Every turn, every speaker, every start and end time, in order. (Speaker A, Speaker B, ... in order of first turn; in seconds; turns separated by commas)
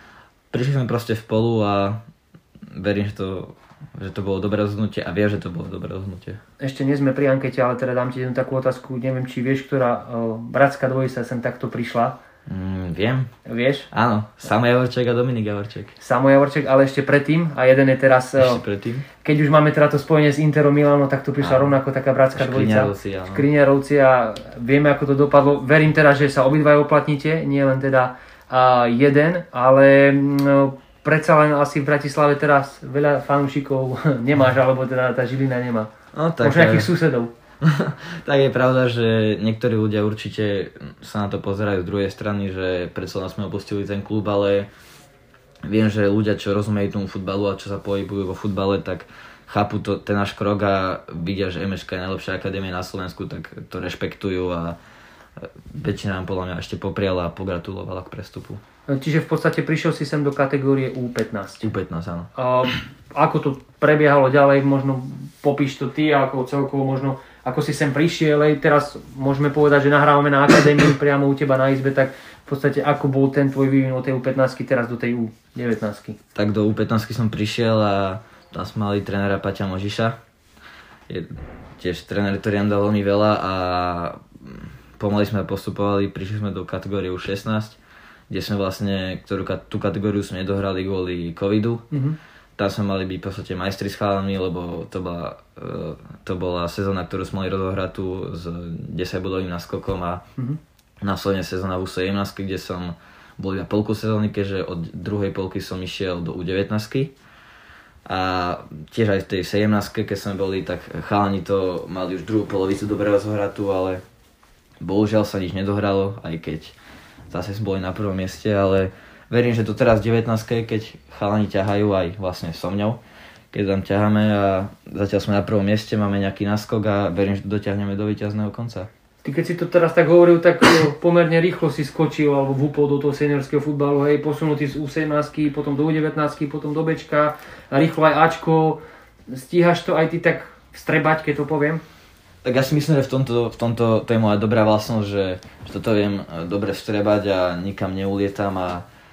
Speaker A: 0.5-2.0, Speaker A: 2.7-6.4, Speaker B: 6.6-12.2, Speaker A: 12.5-13.3, Speaker B: 13.4-13.9, Speaker A: 13.9-15.9, Speaker B: 16.0-18.6, Speaker A: 18.4-19.1, Speaker B: 19.2-35.9, Speaker A: 21.4-21.8, Speaker A: 22.3-23.4, Speaker A: 36.1-36.9, Speaker B: 36.4-37.3, Speaker A: 37.6-44.7, Speaker A: 45.6-54.8, Speaker A: 55.4-58.6, Speaker B: 58.9-61.6, Speaker A: 61.6-62.3, Speaker B: 62.4-76.2, Speaker A: 76.3-80.2, Speaker A: 81.1-87.8, Speaker A: 88.3-91.8, Speaker B: 91.9-92.2, Speaker A: 92.5-100.2, Speaker A: 101.0-107.1, Speaker A: 108.0-114.0, Speaker A: 114.8-116.8, Speaker A: 117.3-123.0, Speaker A: 123.5-128.9, Speaker B: 129.2-141.8, Speaker A: 142.4-148.8